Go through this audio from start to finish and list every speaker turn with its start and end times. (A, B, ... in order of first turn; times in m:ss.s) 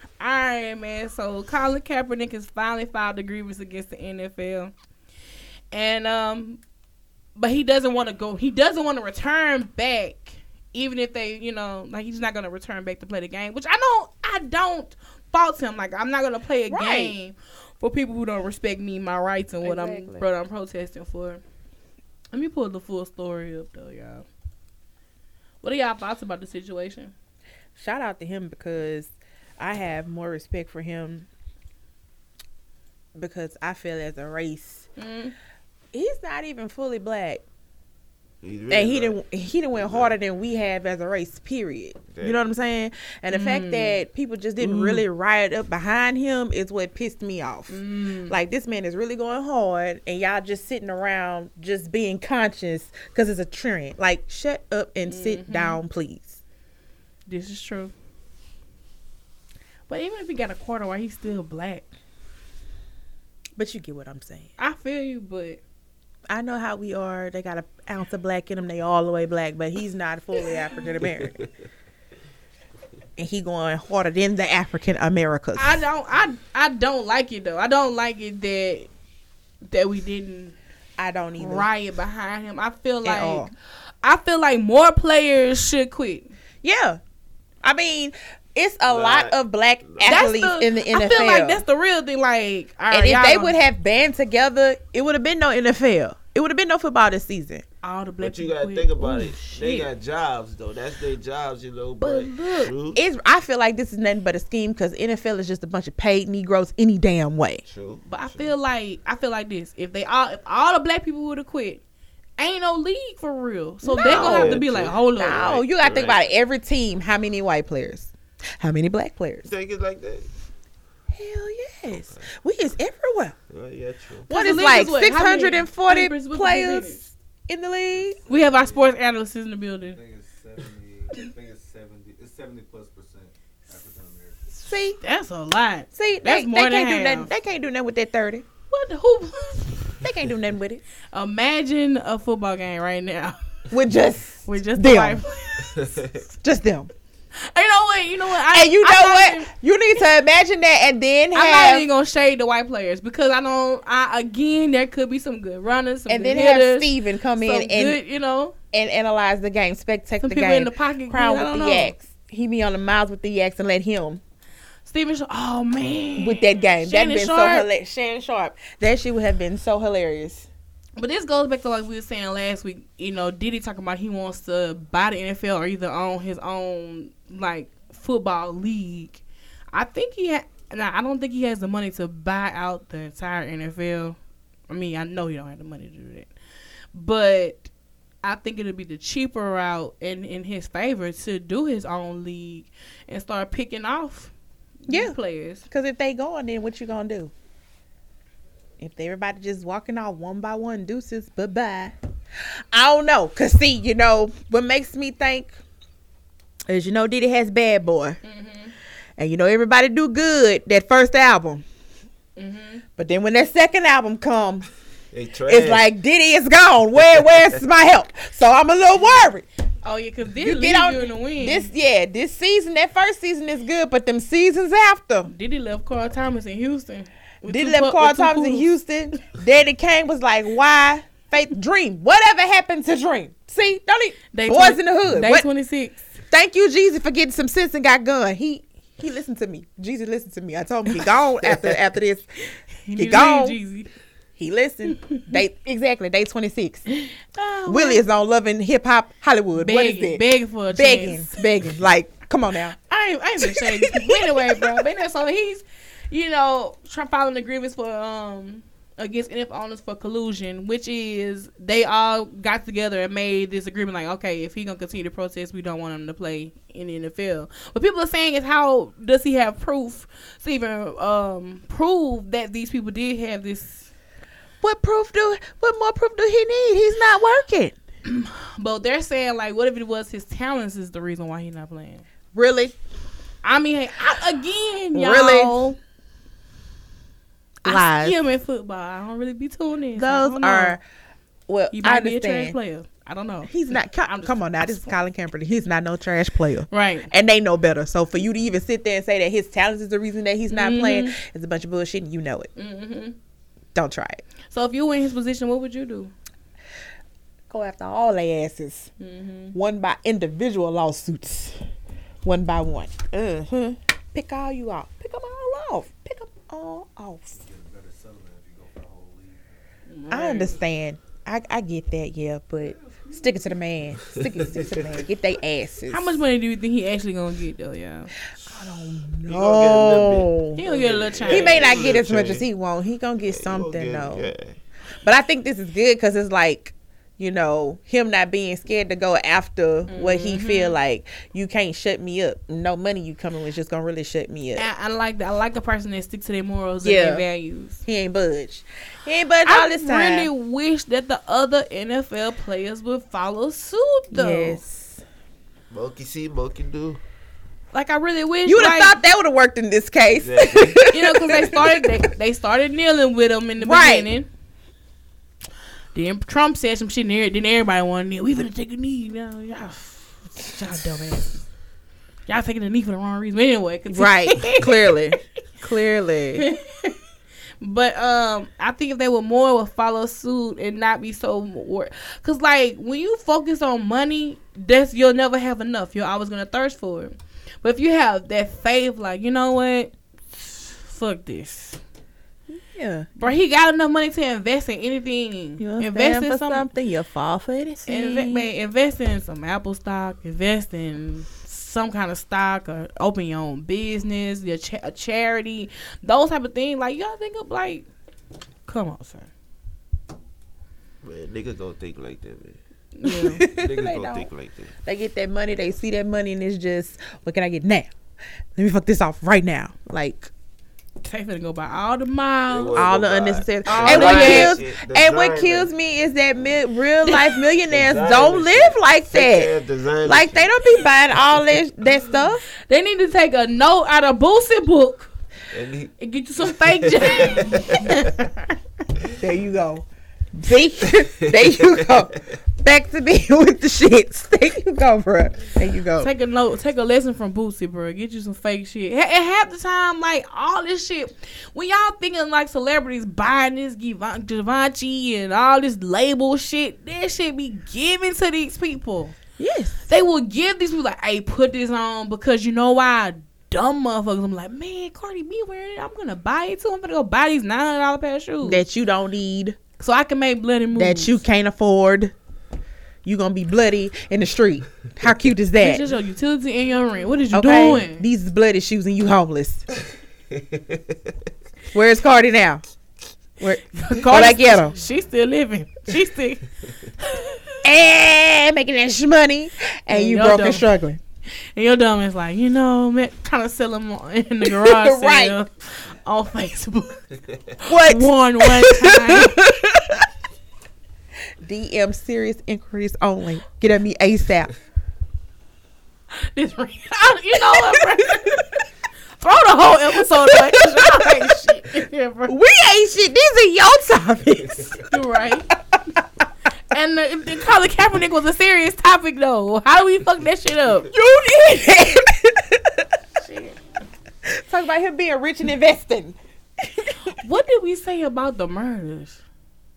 0:00.2-0:04.7 A
0:05.7-0:06.6 A
0:07.4-0:21.4 A
0:16.7-0:17.1 B
0:19.6-0:20.2 B
0:22.3-0:24.2 A
0:25.6-0:27.1 A
0:27.8-0:31.3 B
0:33.1-0:34.9 B
0:35.0-0:35.3 A
0:35.9-0:37.4 B
0:38.4-0:39.2 C
0:38.7-0:56.4 B
0:39.7-0:40.2 C
0:43.3-0:44.0 A
0:44.6-0:45.0 A
0:47.7-0:48.4 A
0:55.0-0:55.8 A
0:57.3-0:57.9 A
0:59.9-1:01.9 A
1:03.6-1:04.5 B
1:04.6-1:05.6 A
1:06.3-1:11.4 B
1:11.0-1:11.5 C
1:13.2-1:15.8 B
1:15.6-1:18.9 A
1:19.6-1:20.5 A
1:21.0-1:21.7 B
1:21.4-1:23.5 A
1:23.0-1:23.5 B
1:24.0-1:26.3 A
1:26.6-1:27.0 B
1:27.6-1:31.6 B
1:28.9-1:30.3 C
1:30.0-1:33.6 A
1:32.9-1:37.6 B
1:37.8-1:39.9 A
1:38.2-1:43.0 C
1:42.0-1:42.7 A
1:42.9-1:47.6 B
1:47.6-1:48.5 C
1:48.0-1:51.8 A
1:52.4-1:55.4 A
1:53.8-1:59.5 B
1:54.0-1:56.2 C
1:59.4-2:00.3 C
2:01.1-2:03.4 B
2:02.0-2:02.2 C
2:03.5-2:04.3 C
2:04.3-2:08.2 B
2:04.3-2:07.0 A
2:08.0-2:08.9 D
2:08.3-2:10.0 A
2:09.9-2:14.4 D
2:14.5-2:15.0 B
2:15.0-2:17.3 A
2:15.9-2:18.4 B
2:18.7-2:19.9 A
2:20.0-2:20.8 B
2:21.1-2:23.4 A
2:23.7-2:25.2 B
2:24.4-2:26.2 A
2:25.8-2:26.2 C
2:26.4-2:26.9 B
2:27.4-2:29.5 A
2:28.5-2:31.9 B
2:31.3-2:38.5 A
2:36.1-2:38.0 B
2:38.7-2:44.2 B
2:40.2-2:41.9 A
2:44.8-2:47.7 A
2:46.2-2:50.5 B
2:51.0-2:59.2 A
2:59.7-3:04.2 A
3:04.7-3:06.3 A
3:06.9-3:07.7 A
3:08.2-3:14.3 A
3:14.8-3:15.6 A
3:14.9-3:15.2 B
3:15.7-3:17.3 B
3:18.8-3:22.0 B
3:22.7-3:25.6 B
3:26.7-3:28.2 B
3:28.2-3:28.7 A
3:29.2-3:31.6 B
3:32.4-3:32.8 A
3:33.0-3:34.7 B
3:35.1-3:35.9 C
3:35.5-3:39.4 B
3:37.0-3:37.6 C
3:39.8-3:41.7 A
3:40.4-3:45.3 B
3:45.3-3:48.7 A
3:47.4-3:55.5 B
3:54.3-3:56.1 A
3:56.3-4:02.3 B
4:02.8-4:03.9 A
4:03.0-4:03.6 B
4:04.4-4:06.8 B
4:04.9-4:05.4 A
4:06.9-4:08.0 A
4:07.7-4:12.8 B
4:09.5-4:11.3 A
4:12.9-4:33.9 A
4:13.4-4:14.7 B
4:34.6-4:37.7 B
4:38.0-4:42.0 A
4:42.3-4:42.8 B
4:43.4-4:45.8 A
4:44.9-4:45.7 B
4:47.6-4:48.2 B
4:47.6-4:50.8 A
4:50.0-4:50.8 B
4:51.5-4:52.6 B
4:51.7-4:55.0 A
4:53.4-5:02.5 B
4:56.7-4:57.1 A
5:00.5-5:01.2 A
5:02.6-5:03.2 A
5:03.7-5:04.2 B
5:04.5-5:06.1 A
5:07.5-5:08.9 B
5:09.0-5:09.6 A
5:09.5-5:11.6 B
5:12.2-5:17.4 B
5:17.3-5:19.4 D
5:19.9-5:20.6 A
5:20.1-5:26.2 B
5:22.6-5:23.5 D
5:24.1-5:24.9 C
5:25.9-5:28.1 A
5:28.5-5:30.6 B
5:29.2-5:32.4 C
5:30.5-5:31.9 A
5:31.3-5:34.3 B
5:33.2-5:34.6 C
5:35.0-5:44.7 B
5:39.9-5:40.8 A
5:44.6-5:47.8 A
5:46.8-5:47.2 B
5:47.8-5:50.3 B
5:49.4-5:54.6 A
5:54.1-5:55.0 B
5:55.7-5:57.0 C
5:57.7-5:59.0 A
5:58.4-6:01.8 B
6:00.1-6:01.6 C
6:00.9-6:04.3 A
6:03.6-6:04.1 B
6:05.9-6:11.4 A
6:12.3-6:14.7 A
6:13.9-6:16.4 B
6:16.4-6:17.0 A
6:17.6-6:31.8 A
6:32.5-6:33.1 B
6:33.2-6:36.7 A
6:35.6-6:38.5 B
6:37.9-6:47.9 A
6:48.7-6:49.3 A
6:51.0-6:52.6 C
6:52.9-6:53.4 A
6:53.0-6:54.3 B
6:53.5-6:54.7 C
6:54.8-6:57.9 B
6:58.6-7:00.3 B
7:01.0-7:02.9 A
7:02.5-7:05.7 C
7:02.7-7:09.5 B
7:03.6-7:04.6 A
7:07.0-7:07.4 A
7:07.7-7:10.6 C
7:10.0-7:12.4 B
7:12.6-7:15.1 A
7:15.5-7:15.9 C
7:16.0-7:18.5 A
7:16.5-7:18.0 C
7:19.2-7:26.1 B
7:21.3-7:22.0 C
7:26.0-7:39.2 A
7:39.4-7:39.8 B
7:39.9-7:48.6 A
7:48.4-7:49.6 B
7:49.8-7:51.2 A
7:50.7-7:52.1 B
7:53.0-7:55.8 B
7:55.6-7:58.0 A
7:57.3-7:59.6 B
8:01.7-8:02.6 B
8:03.4-8:04.7 B
8:03.7-8:06.4 A
8:07.0-8:07.6 A
8:07.6-8:11.0 B
8:09.9-8:10.7 A
8:11.5-8:17.0 A
8:14.4-8:15.4 B
8:17.6-8:19.4 A
8:17.6-8:20.0 B
8:21.4-8:24.5 B
8:26.1-8:28.5 A
8:27.6-8:28.2 B
8:29.2-8:32.3 A
8:30.1-8:31.2 B
8:32.3-8:34.8 B
8:34.9-8:35.5 A
8:36.7-8:40.9 A
8:40.9-8:42.8 B
8:43.2-8:43.5 A
8:44.2-8:47.0 B
8:47.0-8:49.2 A